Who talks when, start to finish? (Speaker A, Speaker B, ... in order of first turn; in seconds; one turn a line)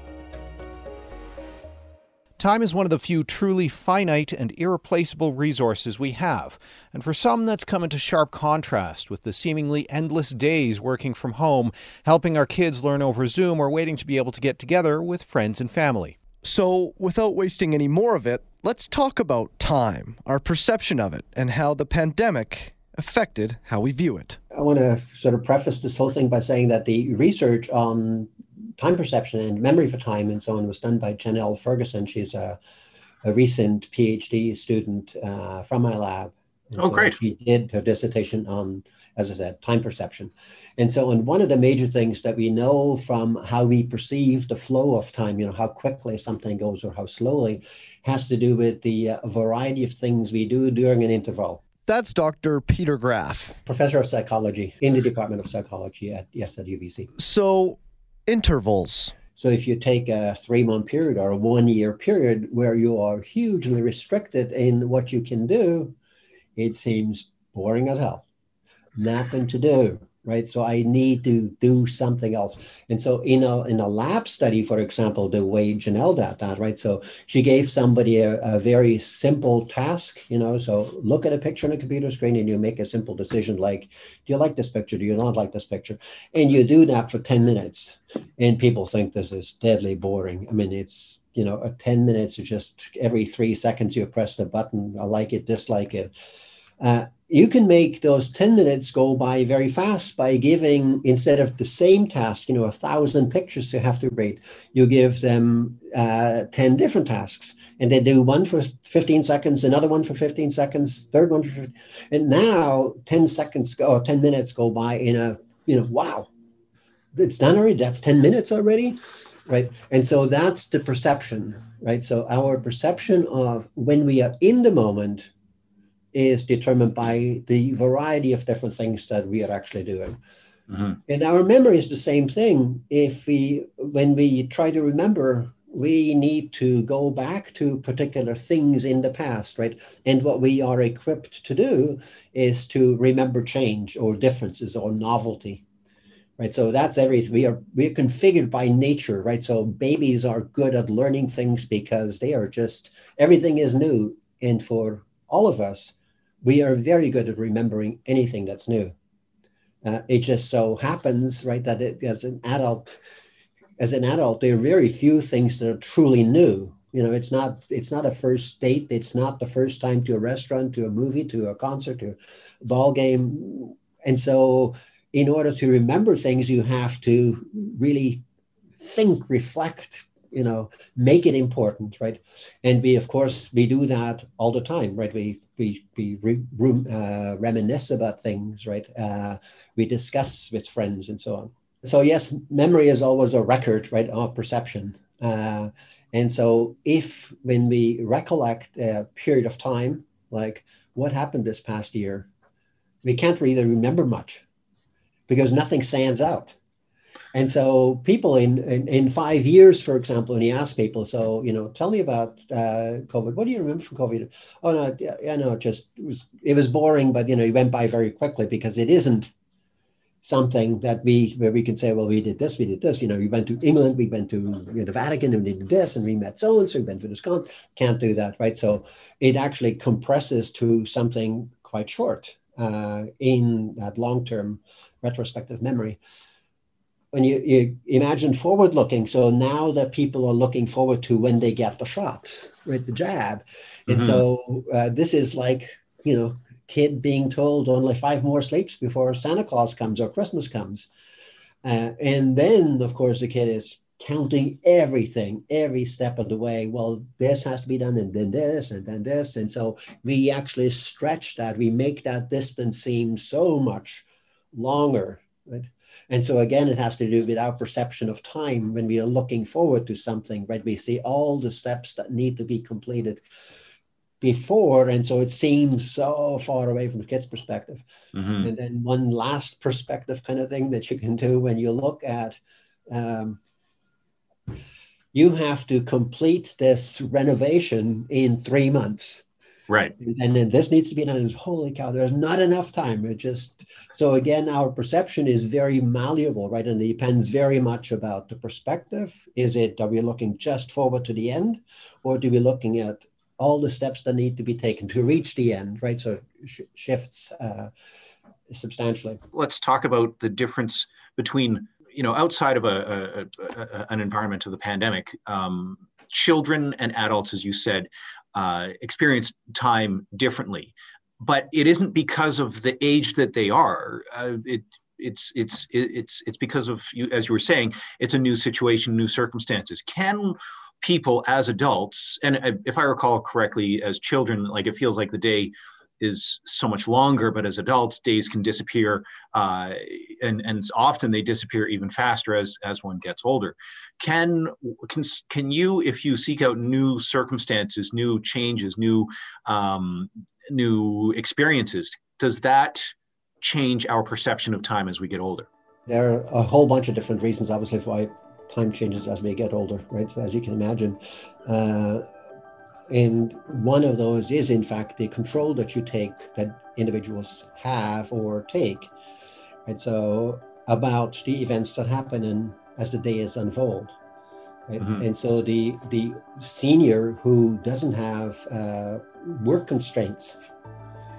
Speaker A: 2.4-16.2
Speaker B: 16.4-24.4
Speaker C: 24.5-32.6
Speaker C: 33.2-51.6
Speaker A: 36.8-37.2
Speaker B: 51.9-53.6
Speaker C: 53.7-57.1
Speaker B: 57.2-59.1
Speaker C: 59.4-66.0
Speaker C: 66.6-68.3
Speaker C: 69.0-96.1
Speaker C: 96.8-116.3
Speaker C: 117.1-119.0
Speaker C: 119.5-125.3
Speaker C: 126.1-130.2
Speaker C: 131.1-145.6
Speaker C: 146.4-158.9
Speaker C: 159.8-163.0
Speaker C: 163.8-178.2
Speaker C: 178.8-202.3
Speaker C: 203.0-204.4
Speaker C: 205.3-206.6
Speaker C: 207.3-219.3
Speaker C: 220.2-236.0
Speaker C: 237.1-250.9
Speaker A: 243.9-244.2
Speaker C: 251.6-273.2
Speaker C: 274.2-277.9
Speaker A: 278.1-278.5
Speaker C: 278.4-283.4
Speaker C: 285.1-289.3
Speaker A: 289.7-289.9
Speaker C: 290.0-307.7
Speaker C: 308.5-309.2
Speaker A: 309.3-352.9
Speaker A: 353.4-355.5
Speaker C: 355.9-362.0
Speaker C: 362.9-368.9
Speaker C: 369.7-373.9
Speaker C: 374.7-380.4